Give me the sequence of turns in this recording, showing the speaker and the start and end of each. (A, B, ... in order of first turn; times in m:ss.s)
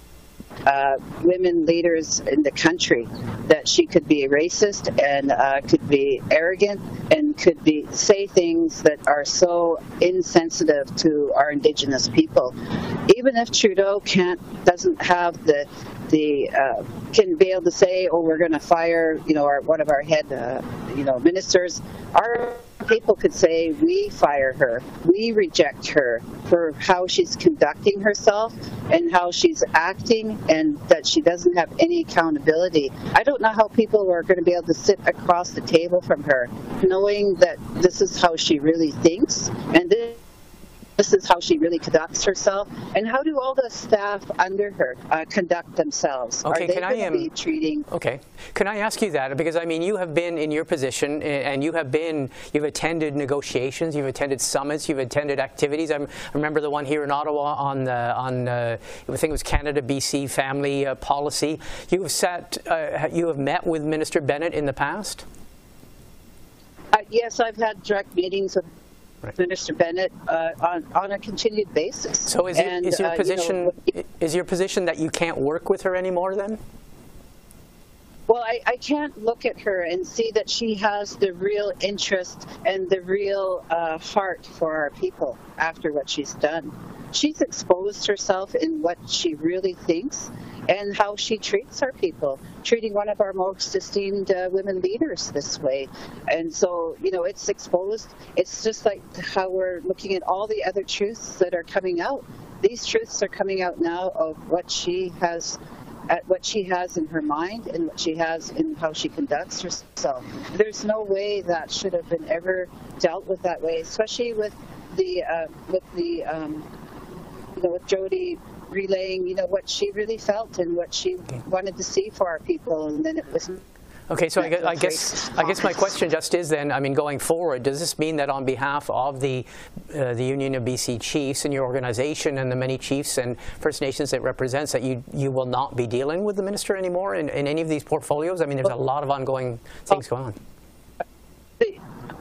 0:00.6-0:12.5 A
0:13.1-0:40.2 A
0:41.0-0:47.8 A
0:46.4-0:47.3 B
0:47.9-1:05.2 B
1:06.9-1:08.7 A
1:09.3-1:13.9 A
1:12.3-1:16.6 B
1:18.3-1:56.7 A
1:57.6-2:03.6 A
2:04.1-2:20.4 B
2:04.4-2:05.9 A